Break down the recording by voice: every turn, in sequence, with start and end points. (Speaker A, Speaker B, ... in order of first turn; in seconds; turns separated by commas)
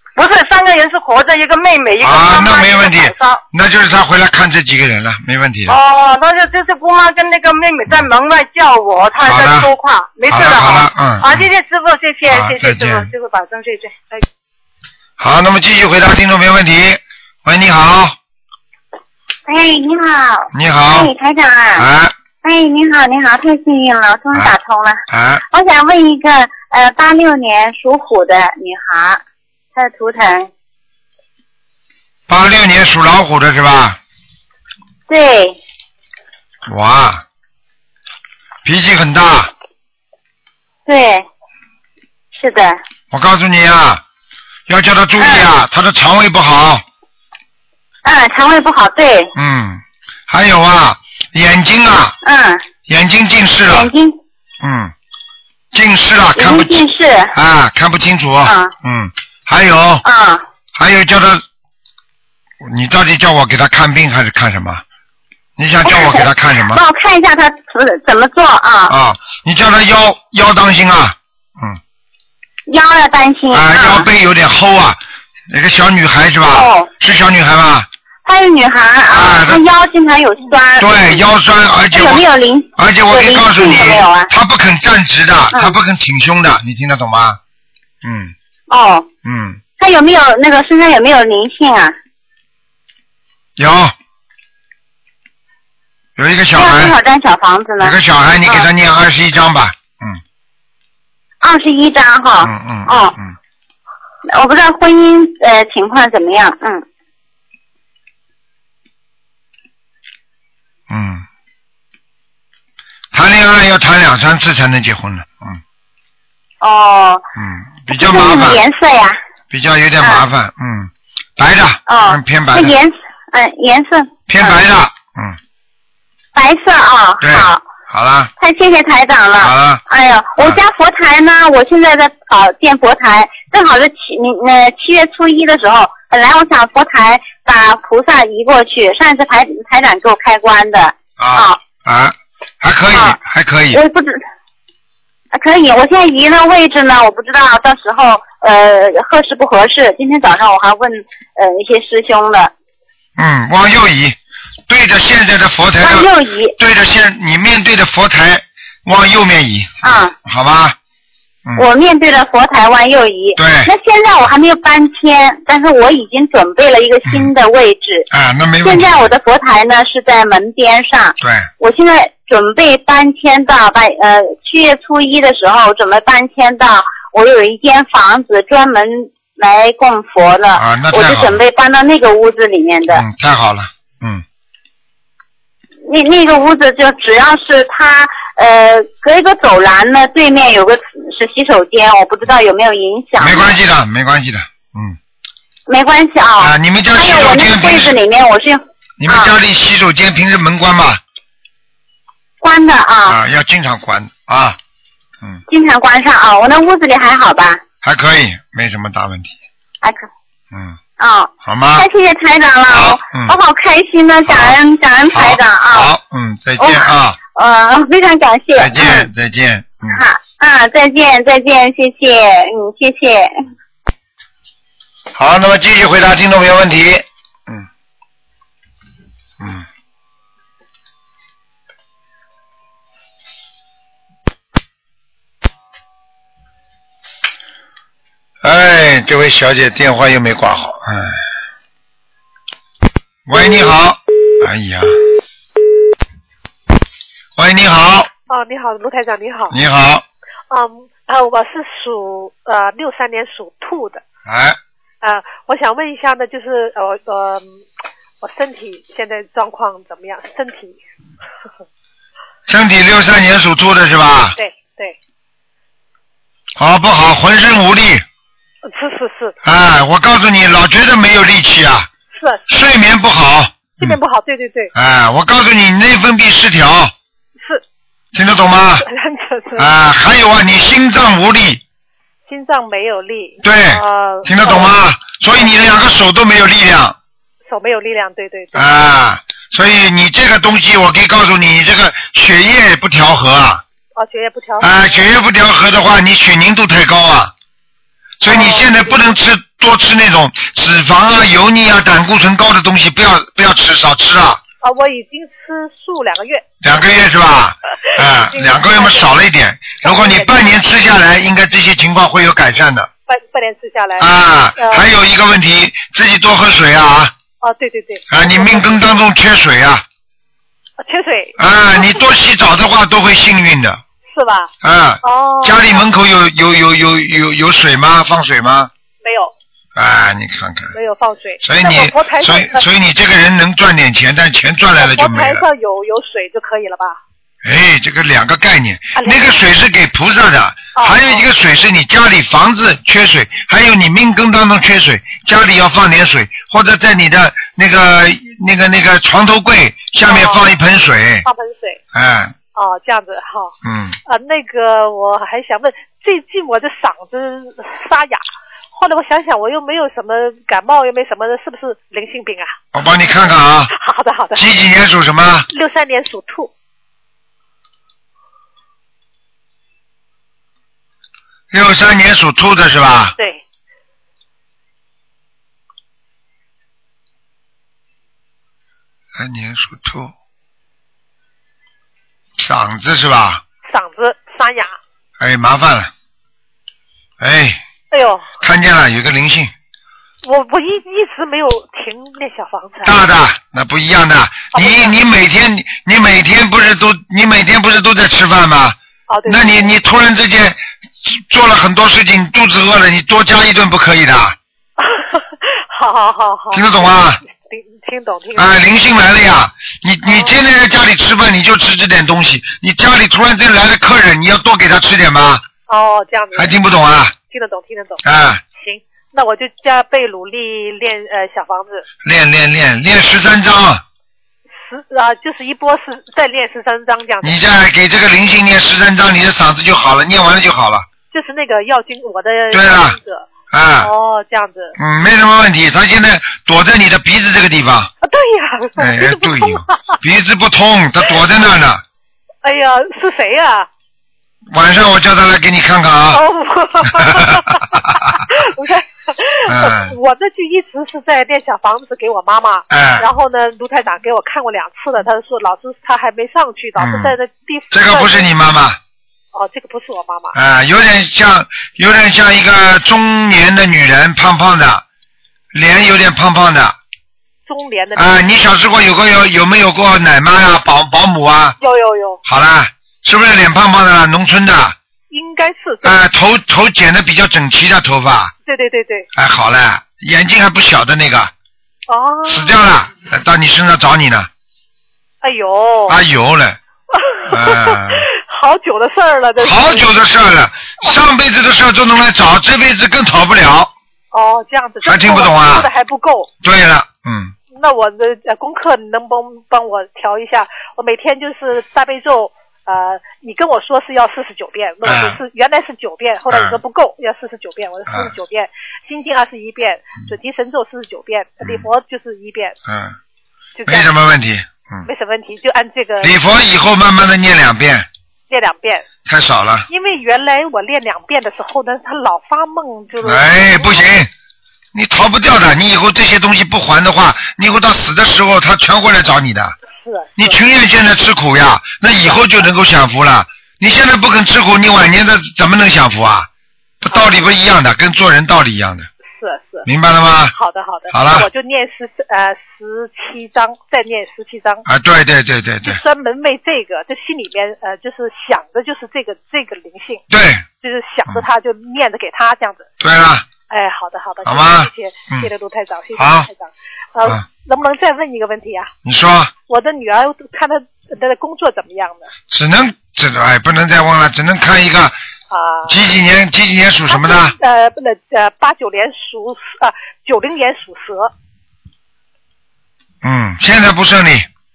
Speaker A: 0.2-3.4, Speaker B: 2.0-5.8, Speaker A: 5.7-14.2, Speaker B: 9.2-9.7, Speaker B: 10.3-11.5, Speaker B: 12.3-13.1, Speaker B: 15.2-18.2, Speaker C: 19.5-21.9, Speaker B: 20.5-21.1, Speaker B: 21.8-22.1, Speaker C: 22.4-29.2, Speaker B: 25.1-25.4, Speaker C: 29.8-30.5, Speaker B: 32.3-34.0, Speaker C: 35.1-35.6, Speaker B: 36.7-37.2, Speaker B: 38.6-39.5, Speaker C: 40.9-41.3, Speaker C: 42.4-42.8, Speaker B: 43.1-44.0, Speaker B: 44.7-46.8, Speaker C: 45.2-45.5, Speaker C: 48.0-49.3, Speaker B: 49.4-52.1, Speaker C: 52.2-52.6, Speaker B: 52.9-53.9, Speaker C: 53.7-54.2, Speaker B: 54.6-54.9, Speaker B: 55.7-60.0, Speaker C: 56.4-57.3, Speaker C: 58.5-58.7, Speaker C: 60.0-60.4, Speaker B: 60.8-61.4, Speaker B: 62.6-64.8, Speaker B: 65.6-66.8, Speaker C: 65.9-68.9, Speaker B: 68.9-71.8, Speaker C: 72.7-74.1, Speaker B: 73.5-75.0, Speaker B: 75.5-77.9, Speaker C: 76.5-76.9, Speaker C: 78.3-81.2, Speaker B: 79.1-79.6, Speaker B: 80.8-82.2, Speaker C: 81.9-84.3, Speaker B: 82.8-87.4, Speaker B: 88.0-88.3, Speaker C: 88.7-89.1, Speaker B: 89.2-89.6, Speaker C: 89.8-92.0, Speaker B: 93.6-94.0, Speaker B: 96.2-97.0, Speaker C: 96.5-98.7, Speaker B: 97.8-100.2, Speaker C: 101.4-103.1, Speaker B: 102.4-103.3, Speaker C: 104.3-106.8, Speaker B: 110.9-111.2, Speaker B: 113.1-115.6, Speaker C: 116.6-117.2, Speaker B: 117.4-118.6, Speaker C: 117.9-119.2, Speaker B: 119.5-122.8, Speaker C: 121.9-124.6, Speaker B: 124.3-125.4, Speaker C: 126.3-127.6, Speaker B: 127.2-128.3, Speaker C: 128.4-141.6, Speaker B: 129.4-129.8, Speaker B: 141.2-143.8, Speaker C: 142.9-143.2, Speaker C: 143.7-144.2, Speaker C: 145.3-152.5, Speaker B: 153.2-154.2, Speaker B: 154.7-160.8, Speaker C: 155.8-156.6, Speaker C: 159.8-160.1, Speaker C: 161.6-168.1, Speaker B: 163.4-163.7, Speaker B: 168.1-169.1, Speaker C: 168.6-183.0, Speaker B: 171.2-171.5, Speaker B: 180.6-181.4, Speaker B: 182.9-184.2, Speaker C: 185.9-193.6, Speaker B: 193.2-195.0, Speaker C: 195.7-199.3, Speaker B: 196.4-198.0, Speaker B: 199.0-201.0, Speaker C: 202.4-203.2, Speaker B: 203.1-204.6, Speaker C: 205.5-207.6, Speaker B: 207.8-209.4, Speaker C: 209.8-210.1, Speaker B: 210.5-210.8, Speaker C: 211.0-215.9, Speaker B: 211.4-211.9, Speaker B: 212.7-213.3, Speaker B: 214.3-214.6, Speaker B: 215.1-217.2, Speaker C: 216.6-219.1, Speaker B: 218.6-220.0, Speaker C: 219.9-223.3, Speaker B: 225.1-227.7, Speaker B: 229.4-229.7, Speaker B: 238.4-241.2, Speaker B: 243.3-245.0, Speaker B: 247.4-248.1, Speaker D: 248.3-249.5, Speaker B: 249.5-250.0, Speaker D: 250.5-254.0, Speaker B: 254.3-254.6, Speaker D: 255.0-257.5, Speaker D: 258.2-260.8, Speaker B: 262.5-264.4, Speaker D: 264.4-264.9, Speaker B: 266.6-268.1, Speaker D: 268.7-269.4, Speaker B: 269.4-271.9, Speaker D: 272.1-272.4, Speaker B: 272.5-274.0, Speaker D: 273.8-274.7, Speaker B: 274.7-276.9, Speaker B: 278.1-278.9, Speaker D: 278.8-279.7, Speaker B: 279.6-281.6, Speaker D: 282.3-284.7, Speaker B: 283.4-287.0, Speaker D: 287.5-288.6, Speaker B: 288.5-293.6, Speaker D: 294.0-294.7, Speaker B: 294.6-297.3, Speaker B: 298.2-304.4, Speaker D: 298.3-298.9, Speaker D: 304.6-306.4, Speaker B: 306.6-312.9, Speaker D: 308.2-309.1, Speaker D: 309.8-310.5, Speaker D: 313.1-314.1, Speaker B: 314.0-317.1, Speaker D: 314.6-314.8, Speaker D: 317.4-318.9, Speaker B: 318.1-319.9, Speaker D: 320.8-321.9, Speaker B: 321.4-323.8, Speaker D: 324.1-324.5, Speaker B: 324.6-328.7, Speaker D: 325.0-325.9, Speaker D: 329.0-329.3, Speaker B: 329.8-330.8, Speaker D: 330.7-332.6, Speaker B: 331.4-335.5, Speaker D: 334.8-337.0, Speaker B: 337.4-351.3, Speaker D: 339.0-339.2, Speaker D: 340.8-341.2, Speaker D: 350.0-350.5, Speaker D: 351.2-351.8, Speaker B: 351.9-352.3, Speaker D: 352.6-353.5, Speaker B: 353.6-354.0, Speaker D: 354.1-358.2, Speaker D: 358.7-362.5, Speaker B: 362.7-363.7, Speaker D: 363.8-364.4, Speaker B: 364.4-365.5, Speaker D: 365.5-366.5, Speaker B: 371.5-373.2, Speaker B: 379.1-380.1, Speaker B: 382.4-383.4, Speaker D: 383.7-384.8, Speaker B: 385.2-385.9, Speaker B: 387.2-387.6, Speaker D: 387.9-388.2, Speaker B: 388.4-389.5, Speaker D: 390.2-393.0, Speaker B: 392.9-404.4, Speaker D: 394.5-394.9, Speaker D: 399.1-399.7, Speaker D: 405.7-406.9, Speaker B: 406.5-407.2, Speaker D: 407.5-408.5, Speaker B: 408.4-415.4, Speaker D: 410.1-410.3, Speaker D: 415.7-416.6, Speaker B: 416.4-417.2, Speaker D: 417.3-418.0, Speaker B: 418.0-418.4, Speaker D: 418.6-421.8, Speaker B: 422.1-423.8, Speaker D: 424.7-427.4, Speaker B: 427.2-430.9, Speaker D: 431.1-433.3, Speaker B: 432.5-433.0, Speaker B: 433.5-433.9, Speaker D: 433.8-434.7, Speaker B: 434.8-437.9, Speaker D: 438.0-439.7, Speaker B: 438.8-441.8, Speaker D: 442.4-443.7, Speaker B: 444.5-446.2, Speaker D: 446.1-447.5, Speaker B: 446.9-448.2, Speaker D: 448.6-448.8, Speaker B: 449.5-450.0, Speaker D: 449.6-458.3, Speaker B: 452.7-453.1, Speaker B: 456.8-457.2, Speaker B: 457.7-458.8, Speaker D: 459.3-460.3, Speaker B: 460.3-464.9, Speaker B: 465.5-466.8, Speaker D: 467.5-468.2, Speaker B: 468.0-471.6, Speaker D: 471.6-472.2, Speaker B: 472.2-474.8, Speaker D: 475.1-475.9, Speaker B: 475.8-478.3, Speaker D: 478.5-479.1, Speaker B: 479.1-481.3, Speaker D: 481.9-482.6, Speaker B: 482.3-484.3, Speaker D: 485.2-486.0, Speaker B: 485.9-486.6, Speaker B: 487.3-488.1, Speaker D: 488.3-489.9, Speaker B: 489.4-493.7, Speaker D: 494.1-496.3, Speaker B: 494.8-495.7, Speaker B: 496.4-497.4, Speaker D: 497.6-512.5, Speaker B: 504.8-505.2, Speaker B: 506.3-506.6, Speaker B: 507.9-508.1, Speaker B: 511.4-511.7, Speaker B: 512.7-513.0, Speaker D: 513.6-513.9, Speaker B: 513.7-514.9, Speaker D: 514.9-516.1, Speaker B: 516.0-517.9, Speaker D: 518.3-518.8, Speaker B: 519.1-519.7, Speaker D: 519.7-523.8, Speaker B: 523.0-524.1, Speaker B: 524.7-529.6, Speaker D: 529.8-530.4, Speaker B: 530.2-536.3, Speaker B: 536.8-538.9, Speaker D: 536.9-537.2, Speaker D: 539.2-539.7, Speaker B: 539.7-540.4, Speaker D: 540.4-544.6, Speaker B: 540.9-541.3, Speaker B: 544.7-545.8, Speaker D: 545.6-550.0, Speaker B: 550.1-550.5, Speaker D: 550.6-552.7, Speaker B: 552.8-553.3, Speaker D: 553.5-558.7, Speaker B: 554.2-555.3, Speaker B: 556.0-556.3, Speaker B: 558.9-559.3, Speaker D: 559.5-562.1, Speaker B: 562.3-565.0, Speaker D: 565.3-565.7, Speaker B: 565.7-567.4, Speaker D: 566.9-571.1, Speaker B: 573.0-574.3